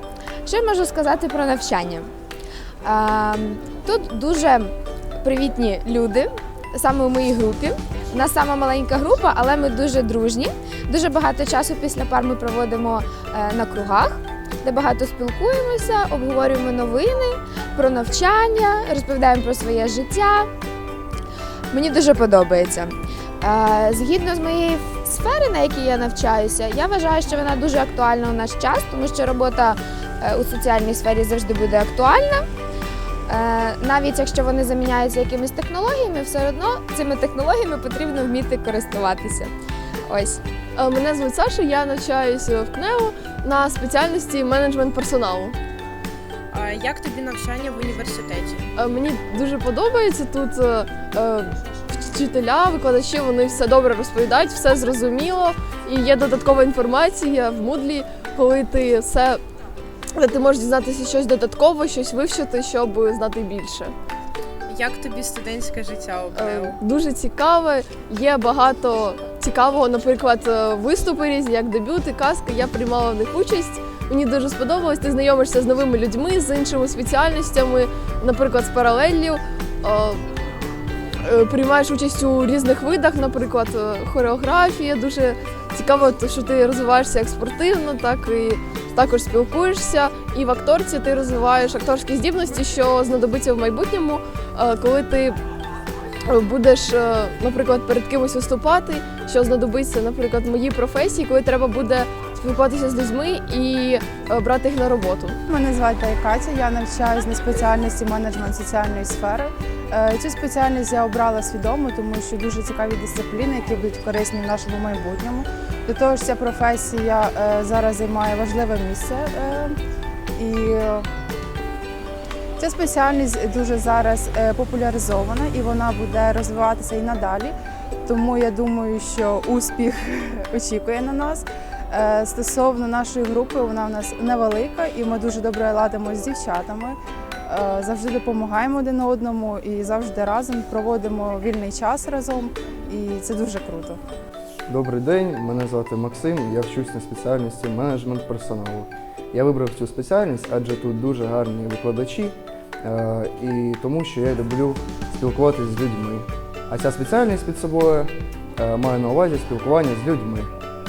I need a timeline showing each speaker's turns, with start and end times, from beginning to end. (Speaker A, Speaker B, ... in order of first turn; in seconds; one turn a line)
Speaker A: 0.5-2.1
Speaker A: 2.8-4.7
Speaker A: 5.2-20.5
Speaker A: 21.7-32.5
Speaker A: 33.3-39.5
Speaker A: 40.1-40.4
Speaker B: 40.8-45.5
Speaker C: 46.5-48.7
Speaker B: 48.8-59.4
Speaker B: 60.1-63.9
Speaker C: 64.7-66.8
Speaker B: 66.3-80.2
Speaker B: 81.2-95.4
Speaker B: 96.3-105.4
Speaker D: 105.5-119.8
Speaker D: 120.4-121.1
Speaker D: 122.6-127.5
Speaker D: 128.1-144.0
Speaker E: 144.7-160.5